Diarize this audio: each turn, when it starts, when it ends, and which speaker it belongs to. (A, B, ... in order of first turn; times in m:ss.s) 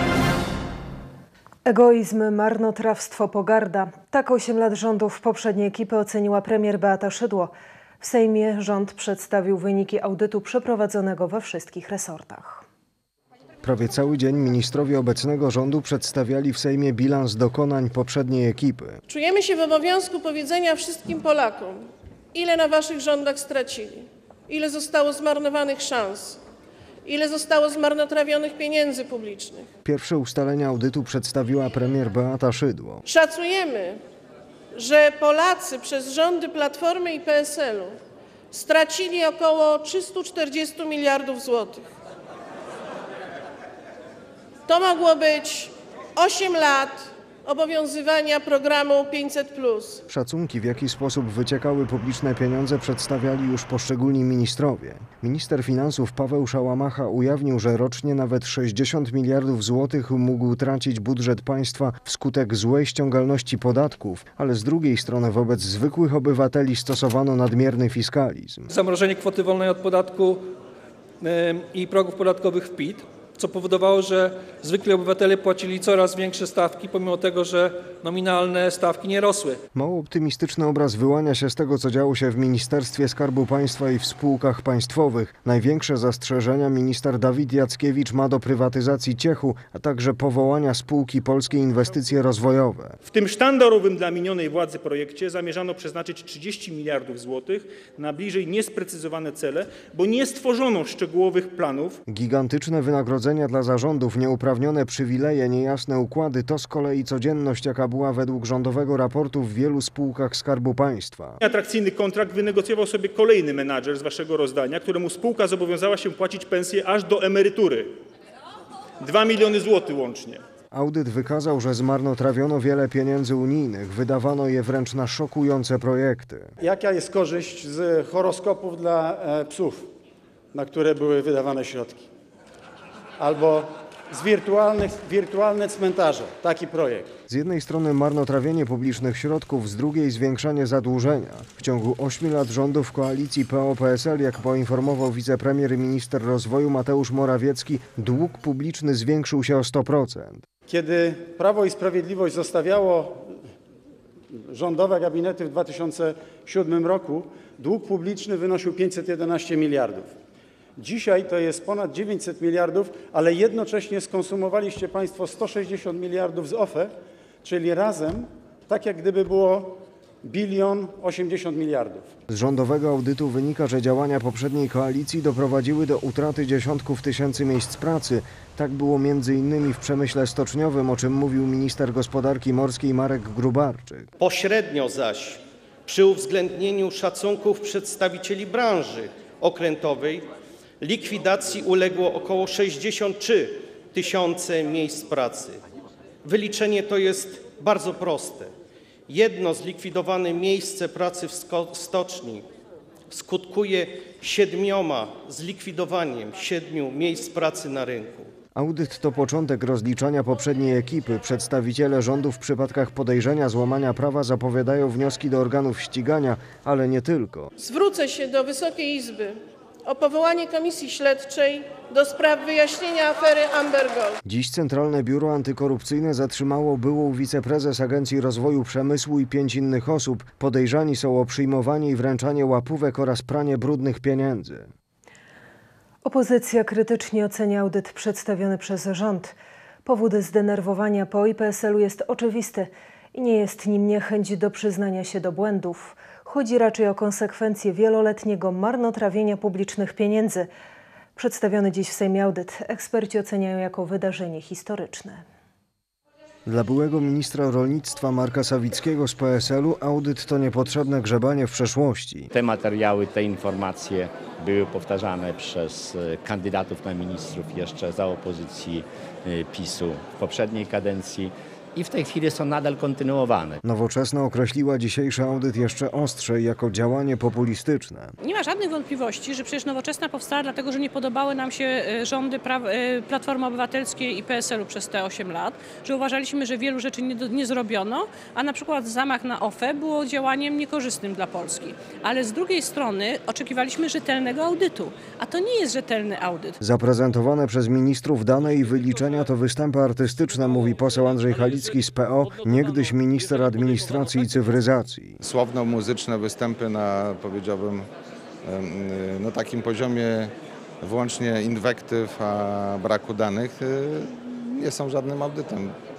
0:01.6-0:12.6 A
0:13.6-0:19.0 B
0:19.1-0:26.4 C
0:27.0-0:29.7 C
0:29.8-0:33.0 B
0:33.1-0:34.0 C
0:34.7-0:38.0 C
0:38.5-0:41.8 C
0:44.7-0:50.0 C
0:50.1-1:08.7 B
1:08.7-1:10.5 D
1:11.2-1:19.6 D
1:19.7-1:33.0 B
1:33.0-1:42.0 E
1:42.1-1:51.4 B
1:51.4-1:57.9 E
1:59.0-2:00.4 E
2:00.7-2:06.5 B
2:06.6-2:09.8 F
2:10.6-2:12.0 F
2:13.2-2:13.6 F
2:14.1-2:17.0 F
2:17.3-2:30.4 B
2:30.7-2:33.1 F
2:34.6-2:40.1 F
2:40.8-2:46.9 F
2:47.4-2:49.7 F
2:50.3-2:52.0 F
2:52.3-3:04.1 B
3:04.2-3:10.2 G
3:10.8-3:15.6 G
3:16.3-3:18.5 G
3:19.1-3:22.4 G
3:23.1-3:28.3 G
3:28.6-3:37.5 B
3:37.6-3:39.4 C
3:39.9-3:44.2 C
3:44.2-3:54.7 B
3:56.0-4:10.5 A
4:11.2-4:15.2 A
4:16.5-4:22.3 B
4:22.3-4:33.6 H
4:33.6-4:38.1 B
4:38.2-4:56.6 I
4:56.6-5:05.2 B
5:05.3-5:07.8 J
5:08.5-5:10.1 J
5:10.8-5:13.6 J
5:14.6-5:15.6 J